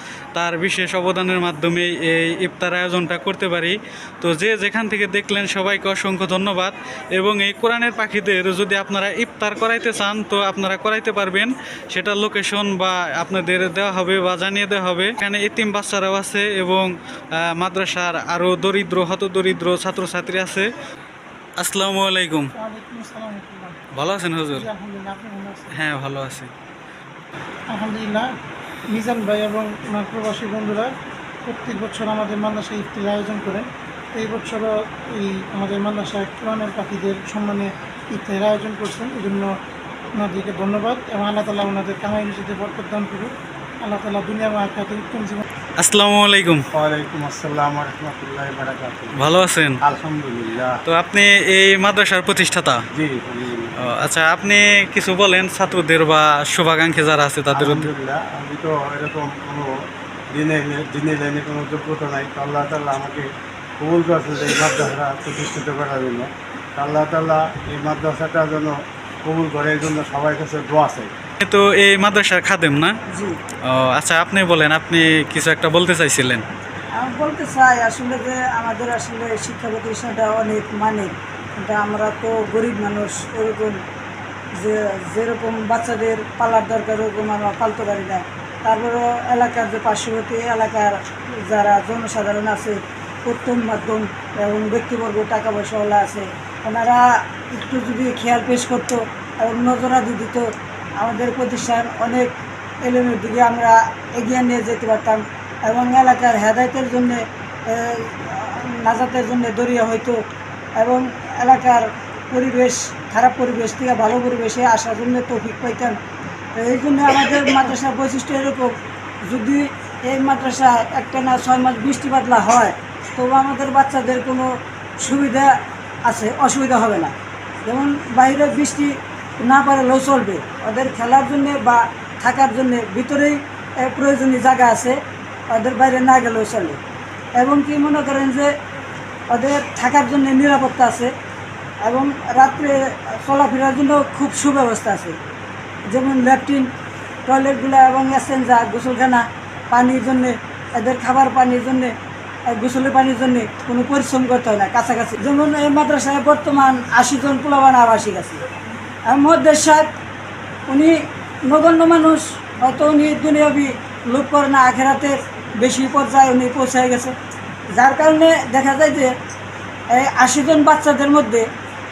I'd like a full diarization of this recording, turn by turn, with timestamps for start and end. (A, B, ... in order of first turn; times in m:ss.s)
0:00.4-0:20.7 A
0:21.6-0:22.5 A
0:22.5-0:23.8 B
0:23.9-0:24.7 A
0:24.5-0:25.8 B
0:25.7-0:26.5 A
0:27.7-0:28.3 B
0:28.9-0:30.9 B
0:31.4-0:39.5 B
0:40.1-0:45.4 B
0:45.8-0:46.7 A
0:46.7-0:49.3 C
0:49.2-0:49.8 A
0:49.8-0:50.8 C
0:50.9-0:52.8 A
0:52.9-0:53.8 C
0:53.8-0:57.9 A
0:57.5-0:59.8 C
1:00.3-1:03.2 C
1:03.8-1:11.1 C
1:11.4-1:12.9 A
1:13.1-1:13.4 D
1:13.6-1:16.4 A
1:16.9-1:23.8 D
1:24.6-1:50.2 D
1:50.8-1:56.0 D
1:56.6-2:15.0 D
2:15.5-2:16.8 D
2:17.4-2:18.5 D
2:19.3-2:21.1 D
2:21.8-2:25.2 D
2:25.9-2:26.7 D
2:27.3-2:31.9 D
2:32.5-2:38.4 D
2:39.1-2:39.9 D
2:40.7-2:47.1 D
2:47.7-2:49.1 D
2:49.9-2:51.5 D